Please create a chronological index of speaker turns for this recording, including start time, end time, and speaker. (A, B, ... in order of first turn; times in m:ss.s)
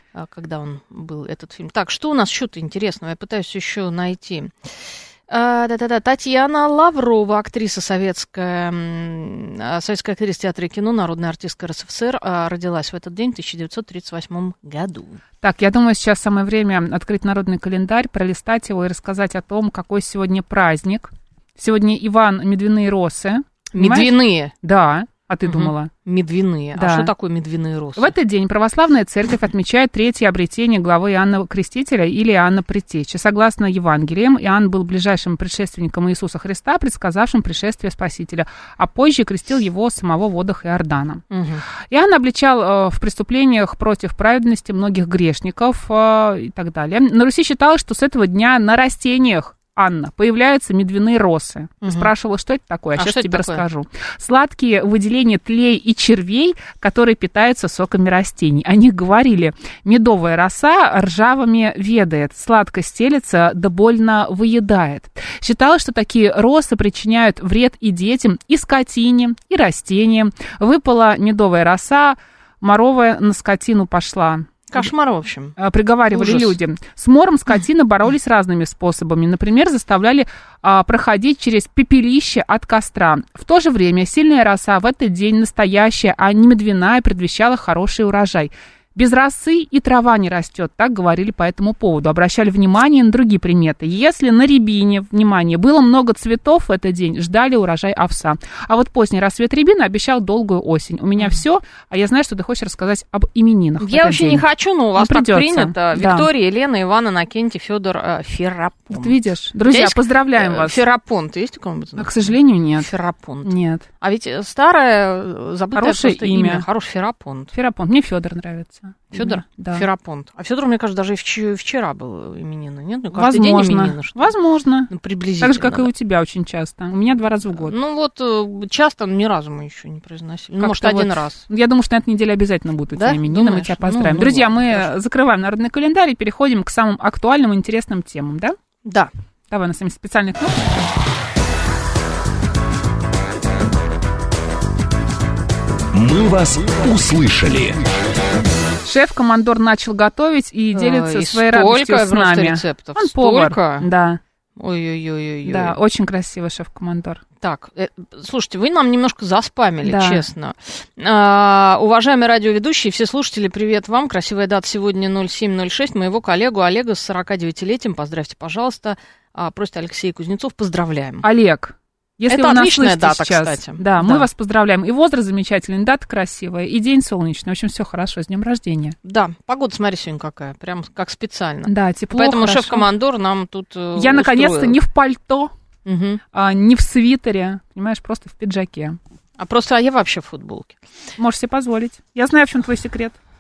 0:00.1-0:04.8 A
0:05.3-0:15.2 A
0:15.4-0:25.9 B
0:23.7-0:24.5 A
0:25.5-0:28.1 A
0:26.8-0:27.1 B
0:28.0-0:41.2 B
0:41.3-0:41.6 A
0:41.9-1:14.9 B
0:51.8-0:52.1 A
0:53.0-0:53.6 A
1:14.7-1:15.6 A
1:15.6-1:44.4 B
1:16.1-1:16.6 A
1:43.8-1:57.5 A
1:45.0-1:46.3 B
1:48.9-1:50.8 B
1:52.0-1:52.9 B
1:53.4-1:53.9 B
1:55.8-1:56.7 B
1:57.5-1:59.9 B
1:59.1-2:04.3 A
2:03.1-2:07.8 B
2:04.9-2:05.9 A
2:07.6-2:11.4 A
2:10.6-2:18.6 B
2:12.9-2:14.9 A
2:18.8-2:19.1 A
2:19.5-2:20.6 B
2:25.9-2:27.9 C
2:28.8-2:34.2 B
2:30.8-2:33.9 A
2:34.6-2:35.8 A
2:35.4-2:37.2 B
2:37.4-2:51.2 A
2:39.8-2:40.2 B
2:51.2-2:59.0 B
2:52.3-2:54.3 A
2:59.0-3:04.8 A
3:01.7-3:02.9 B
3:04.0-3:05.5 B
3:05.8-3:06.2 A
3:06.3-3:09.0 B
3:09.4-3:10.8 A
3:11.2-3:13.2 B